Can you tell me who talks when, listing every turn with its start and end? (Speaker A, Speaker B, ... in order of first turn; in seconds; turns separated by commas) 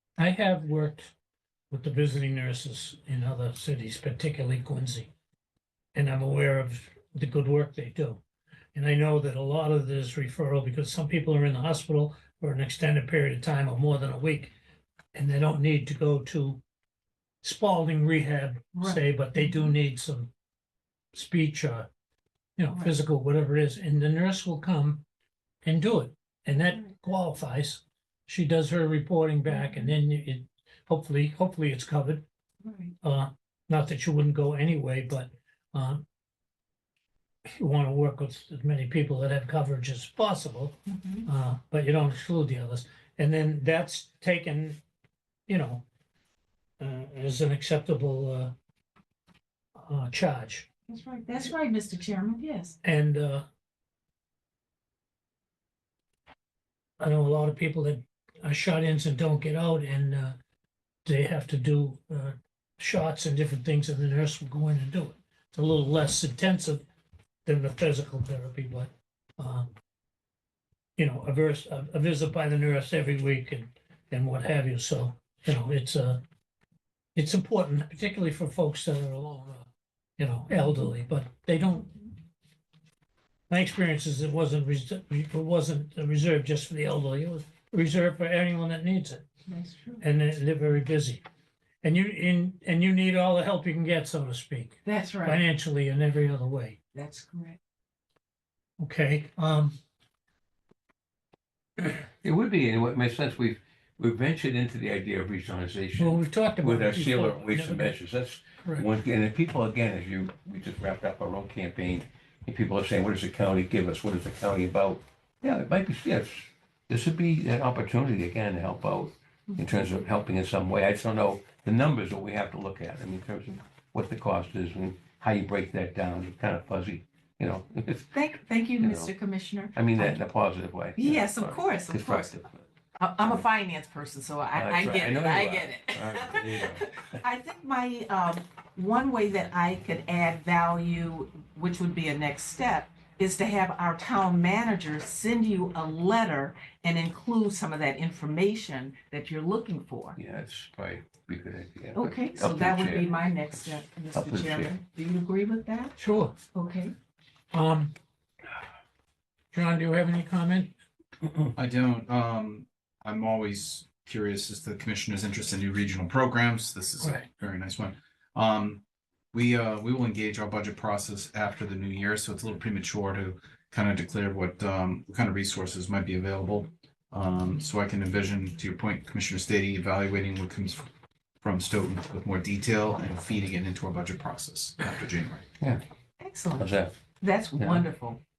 Speaker A: 0.2-1.1, Speaker A: 1.7-5.1, Speaker A: 5.9-8.2, Speaker A: 8.8-14.5, Speaker A: 15.1-16.6, Speaker A: 17.4-20.3, Speaker B: 18.8-19.7, Speaker A: 21.1-21.9, Speaker A: 22.6-25.0, Speaker B: 22.7-22.9, Speaker A: 25.6-32.2, Speaker B: 29.5-30.0, Speaker B: 32.6-33.0, Speaker A: 33.0-36.0, Speaker A: 37.6-44.8, Speaker B: 40.9-41.3, Speaker A: 45.5-45.8, Speaker A: 46.8-48.5, Speaker A: 49.8-50.7, Speaker B: 50.9-52.8, Speaker A: 52.8-53.4, Speaker A: 57.0-60.4, Speaker A: 61.0-66.8, Speaker A: 67.5-69.7, Speaker A: 71.0-76.2, Speaker A: 77.2-81.9, Speaker B: 80.5-80.8, Speaker A: 83.5-89.2, Speaker B: 89.5-90.0, Speaker A: 90.0-91.2, Speaker A: 91.8-96.8, Speaker B: 94.8-95.4, Speaker B: 96.9-97.6, Speaker A: 98.8-99.8, Speaker C: 102.2-128.3, Speaker A: 106.0-107.9, Speaker B: 119.5-119.8, Speaker B: 128.1-130.2, Speaker C: 128.8-129.1, Speaker C: 129.7-132.7, Speaker B: 131.0-132.4, Speaker B: 133.0-150.2, Speaker C: 134.5-137.2, Speaker C: 150.2-154.7, Speaker B: 151.9-155.9, Speaker A: 156.0-156.4, Speaker B: 156.5-156.9, Speaker A: 157.5-157.9, Speaker A: 159.5-160.7, Speaker D: 161.6-168.8, Speaker D: 169.3-180.9, Speaker D: 181.4-185.5, Speaker B: 186.2-188.2, Speaker C: 186.6-186.9, Speaker C: 187.6-187.9